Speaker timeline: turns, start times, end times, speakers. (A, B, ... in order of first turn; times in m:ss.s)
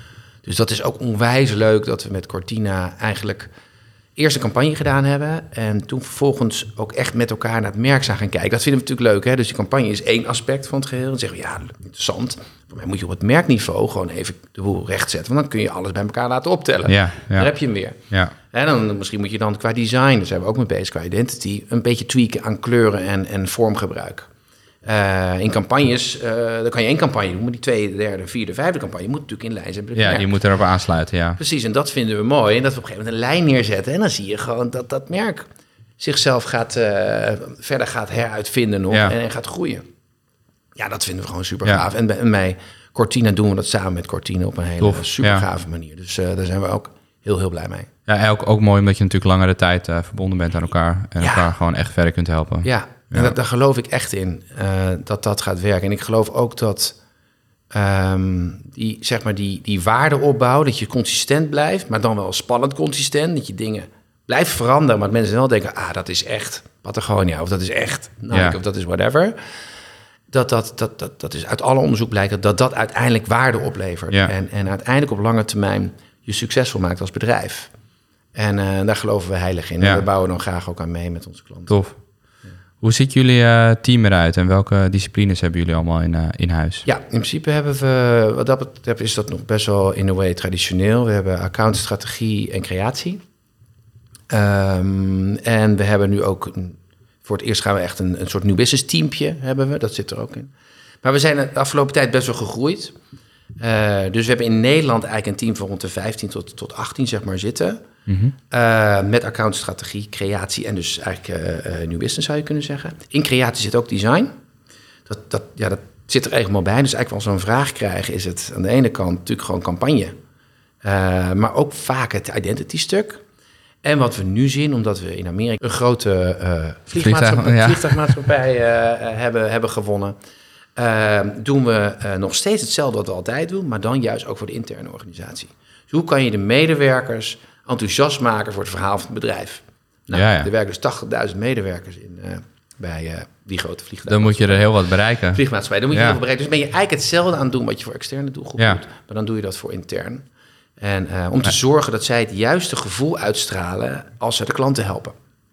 0:00.4-0:03.5 A
0:04.2-0:24.3 A
0:16.9-0:17.5 B
0:24.8-0:30.3 A
0:30.0-0:31.4 B
0:31.4-0:35.5 A
0:36.0-0:39.8 A
0:40.8-0:47.9 A
0:44.8-0:45.4 B
0:48.1-0:53.4 B
0:51.2-0:51.5 A
0:52.6-0:57.0 A
0:57.7-1:09.4 A
1:08.3-1:08.6 B
1:10.3-1:17.7 A
1:18.4-1:21.8 A
1:21.7-1:22.0 B
1:22.8-1:26.8 B
1:26.8-1:33.2 A
1:34.3-1:40.5 A
1:41.0-1:43.0 A
1:43.6-1:47.8 A
1:48.1-1:48.3 B
1:48.5-1:54.3 A
1:55.1-2:00.1 A
2:00.8-2:03.2 A
2:03.8-2:10.2 A
2:07.0-2:08.0 B
2:10.8-2:24.6 A
2:20.1-2:20.5 B
2:24.1-2:25.4 B
2:25.3-2:30.2 A
2:25.9-2:26.2 B
2:30.8-2:35.2 A